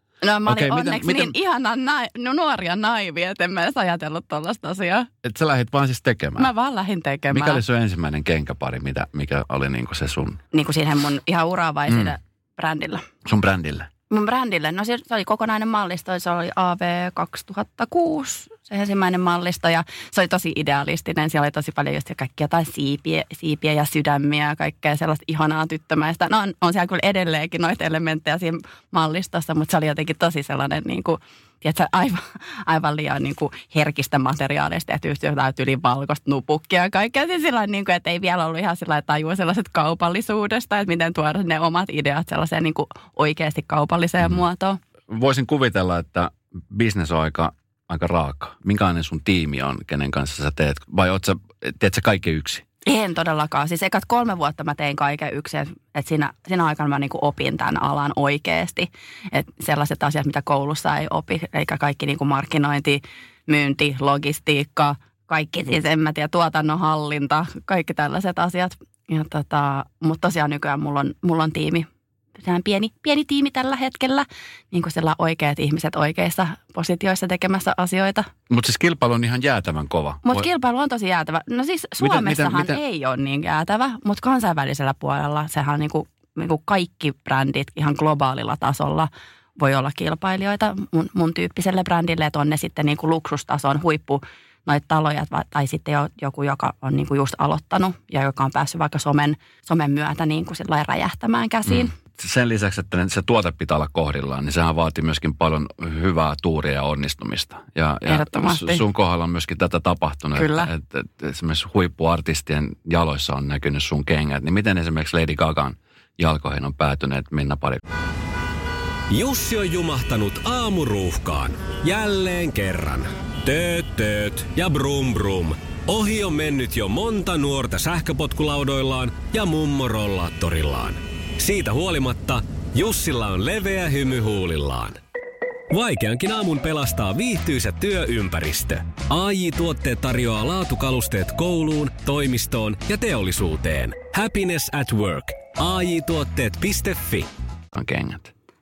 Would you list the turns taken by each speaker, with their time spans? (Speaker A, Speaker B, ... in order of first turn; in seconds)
Speaker A: 0.2-5.1, 6.4-7.6, 10.5-13.1, 14.1-44.8, 52.9-78.3, 80.2-101.9, 108.1-108.8, 110.3-110.7
Speaker B: 0.5-1.3, 5.2-6.5, 7.3-10.4, 11.9-12.1, 13.2-13.9, 45.1-52.6, 78.5-80.5, 82.0-82.8, 101.7-117.8, 147.7-148.3
Speaker C: 119.1-135.0, 135.7-147.3